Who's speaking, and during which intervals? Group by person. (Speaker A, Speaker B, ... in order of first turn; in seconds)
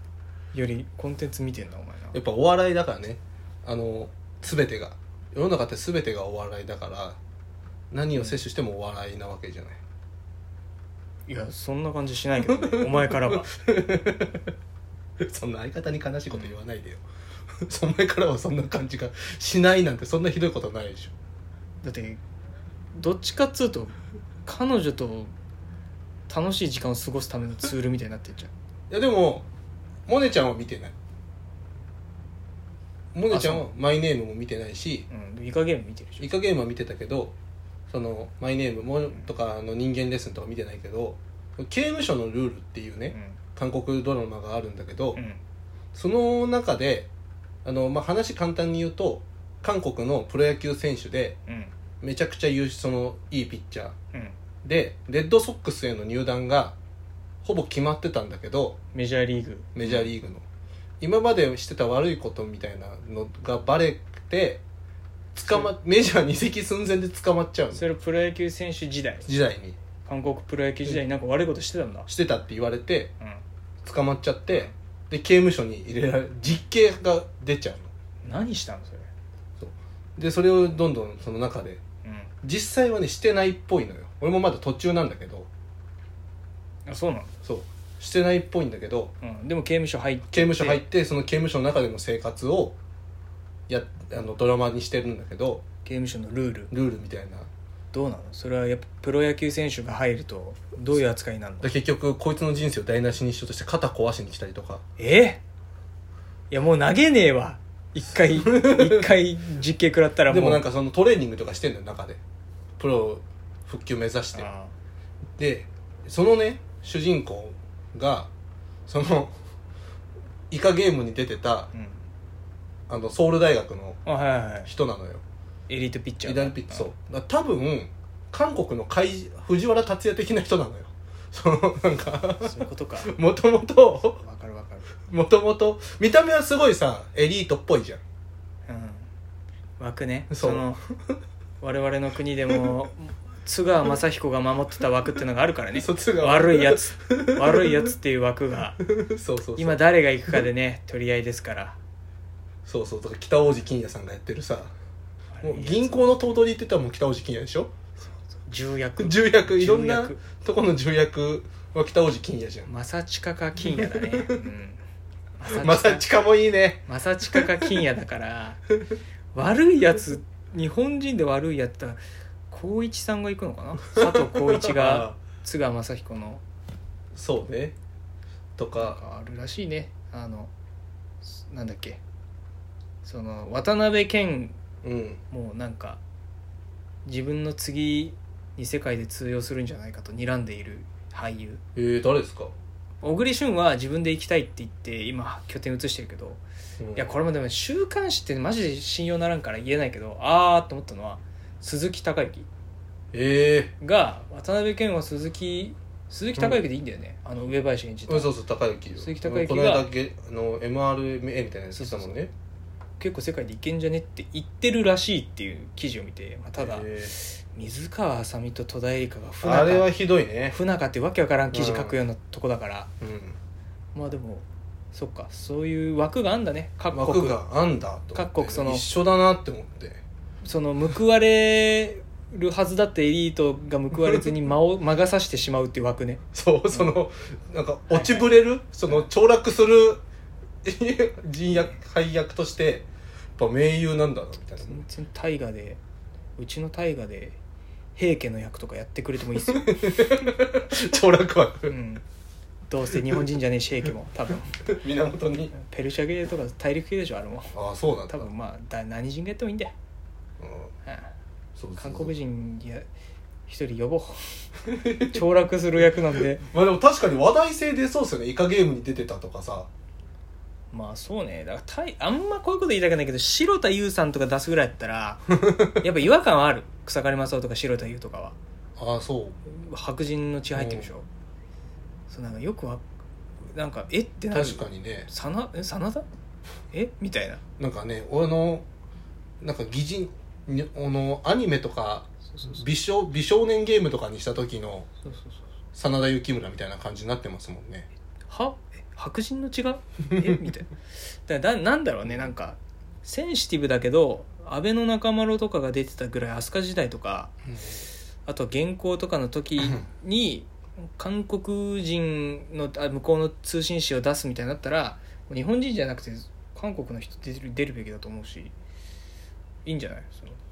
Speaker A: 0.5-2.2, 11.3-13.5, 21.8-22.2, 22.9-25.3, 26.3-28.5, 33.3-33.7, 35.1-36.3, 39.1-39.3, 43.1-43.4, 45.2-45.4, 51.5-51.7, 58.9-60.1, 65.3-65.7, 67.7-69.3, 70.1-72.1, 78.2-79.1, 82.0-82.3, 86.9-87.3, 89.2-90.8, 95.8-96.7, 97.9-101.7, 105.0-105.4, 106.5-110.6, 114.3-114.7, 121.7-122.0, 124.1-124.7, 125.7-126.9, 132.4-133.1, 134.2-134.9, 138.7-139.1, 139.8-140.8, 141.6-148.8, 149.6-151.8, 155.3-156.2, 158.3-160.2, 162.7-164.8, 165.4-166.1, 166.9-168.6, 169.3-176.4, 178.8-180.5, 181.2-182.0, 183.0-184.6, 185.3-186.0, 187.1-191.6, 193.0-196.4, 197.0-202.5, 203.8-208.3, 209.0-209.9, 211.7-212.2, 213.0-219.9, 220.5-222.9, 223.9-227.4, 228.1-228.9, 230.4-236.9, 237.9-238.3, 244.6-245.8, 246.4-247.4, 248.0-249.8, 251.7-252.0, 252.7-254.7, 255.6-257.6, 258.1-259.7, 261.8-262.9, 263.5-264.3, 265.1-266.4, 270.7-278.4, 279.5-281.1, 282.1-282.8, 283.5-286.1, 286.7-287.4, 292.3-292.6, 295.1-295.4, 298.3-307.3, 308.3-318.5, 319.6-320.4
Speaker B: 2.1-7.2, 7.9-9.8, 12.5-14.4, 15.2-17.0, 17.6-21.1, 28.9-29.5, 30.1-30.9, 33.1-35.1, 36.2-37.4, 37.9-45.2, 45.9-47.1, 47.6-51.4, 52.0-54.0, 54.6-56.8, 57.4-58.8, 59.8-60.4, 61.0-64.6, 65.3-67.8, 69.2-69.8, 72.1-73.1, 73.8-77.9, 79.6-81.8, 82.4-85.5, 87.4-89.1, 90.3-92.8, 93.7-95.6, 96.7-97.5, 101.6-104.8, 108.3-109.0, 110.3-112.2, 112.8-114.5, 115.4-118.3, 118.9-119.3, 120.5-121.7, 122.9-124.0, 124.7-125.2, 126.2-134.2, 135.0-138.0, 140.3-141.2, 145.7-147.9, 148.9-149.8, 152.7-154.7, 155.4-157.7, 159.0-162.7, 163.7-164.4, 165.5-166.8, 173.9-175.1, 177.1-177.8, 178.6-179.0, 184.8-185.2, 191.8-192.5, 196.8-197.1, 203.1-203.8, 206.4-206.6, 208.1-212.3, 216.6-217.1, 219.4-220.6, 221.5-222.0, 223.0-223.4, 226.9-230.0, 236.3-240.0, 240.6-244.8, 249.5-251.8, 254.7-255.6, 257.5-258.3, 260.4-260.7, 261.6-262.1, 264.7-265.2, 266.4-269.7, 278.8-279.4, 280.6-280.9, 284.3-285.1, 287.6-288.6, 289.4-294.9, 295.7-297.9, 307.5-307.8